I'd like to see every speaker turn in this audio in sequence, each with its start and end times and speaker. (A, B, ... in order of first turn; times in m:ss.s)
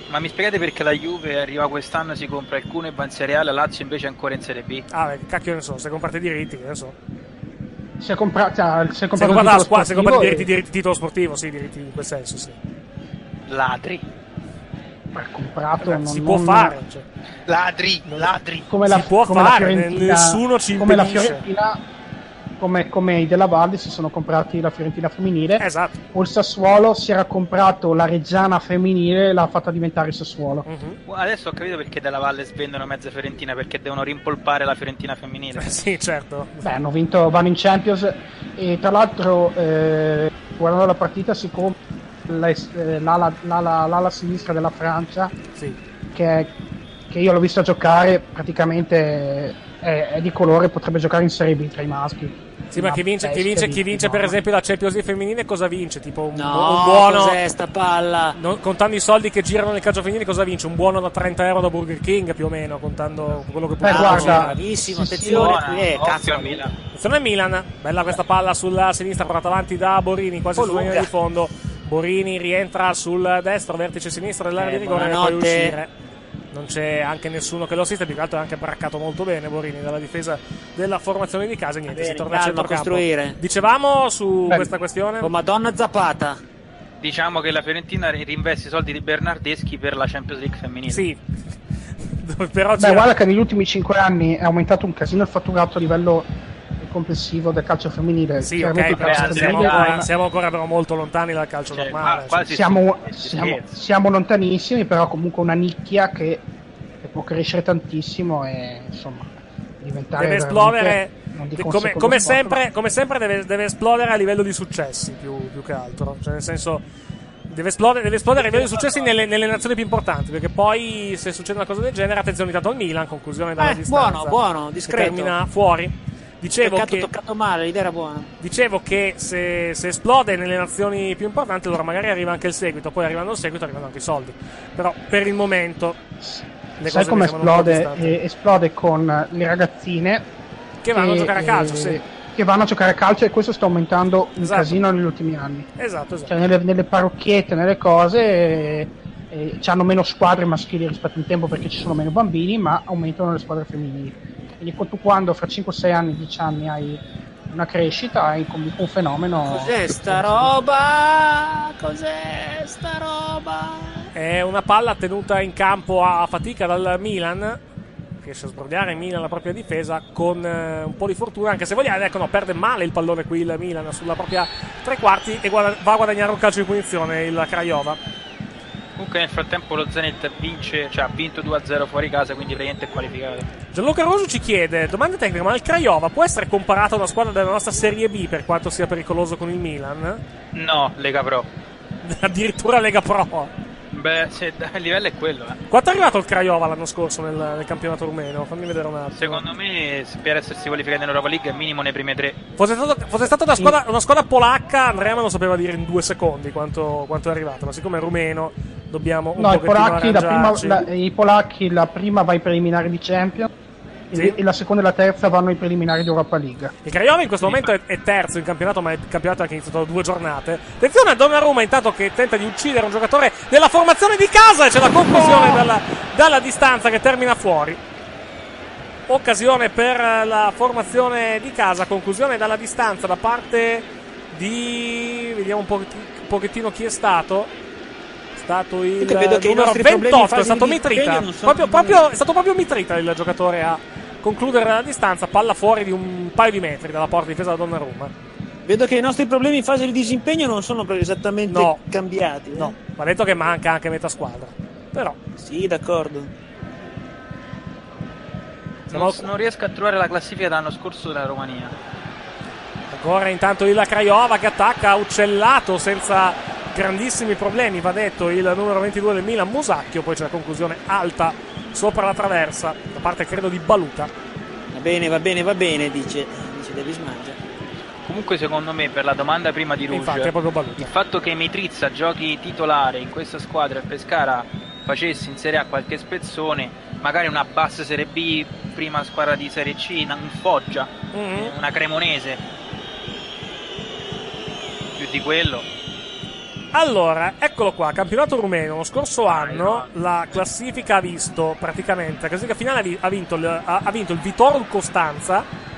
0:00.1-0:04.8 A
0:04.9-0:07.0 B
0:08.0-0:10.5 C
0:09.2-0:12.6 B
0:13.5-0:14.0 A
0:15.1-0:16.8 C
0:15.8-0:17.0 B
0:17.5-0:18.7 A
0:18.7-0:21.8 C
0:18.8-0:21.4 B
0:22.6-0:30.7 C
0:25.6-0:26.0 B
0:30.6-0:31.0 B
0:31.1-0:35.8 A
0:35.6-0:36.7 B
0:36.6-0:41.8 C
0:42.3-0:45.3 C
0:46.1-0:46.5 C
0:47.1-0:54.4 C
0:52.7-0:57.4 B
0:56.3-0:58.4 D
0:58.4-1:04.6 B
1:03.8-1:05.6 C
1:03.8-1:06.7 D
1:05.3-1:06.7 A
1:06.9-1:15.9 B
1:10.6-1:11.1 D
1:14.6-1:15.8 D
1:16.5-1:25.3 B
1:21.9-1:23.4 D
1:25.2-1:26.4 D
1:27.0-1:31.0 A
1:30.9-1:31.2 B
1:32.1-1:33.1 B
1:32.8-1:40.1 C
1:38.4-1:42.5 B
1:38.9-1:40.0 A
1:41.7-1:43.6 A
1:42.5-1:46.5 C
1:47.0-1:49.3 C
1:49.8-1:52.6 C
1:50.2-1:56.8 B
1:57.5-2:07.1 B
2:03.6-2:05.4 D
2:06.6-2:08.3 D
2:08.4-2:16.0 B
2:16.2-2:20.3 C
2:16.8-2:18.2 B
2:20.8-2:22.0 B
2:20.9-2:25.7 C
2:24.4-2:24.8 B
2:25.8-2:26.3 B
2:26.3-2:40.5 C
2:39.4-2:44.1 D
2:44.1-2:47.6 B
2:48.2-2:58.0 B
2:59.0-3:03.5 A
3:03.7-3:10.2 B
3:10.5-3:11.5 A
3:12.0-3:13.5 B
3:13.9-3:15.6 A
3:15.7-3:19.4 B
3:19.2-3:22.4 A
3:22.6-3:30.9 B
3:29.4-3:33.5 C
3:34.1-3:36.7 C
3:36.8-3:47.8 B
3:37.4-3:37.7 A
3:45.1-3:45.6 C
3:49.1-3:57.5 B
3:58.4-4:08.1 B
3:59.0-4:02.1 D
4:08.7-4:12.8 D
4:11.5-4:11.8 B
4:12.6-4:15.2 B
4:15.4-4:16.3 D
4:18.9-4:21.8 A
4:18.9-4:19.3 B
4:22.9-4:34.1 B
4:34.7-4:37.4 D
4:38.0-4:52.4 A
4:39.9-4:40.9 B
4:51.1-4:51.5 B
4:55.0-4:55.7 A
4:56.7-5:05.5 B
4:59.3-4:59.9 A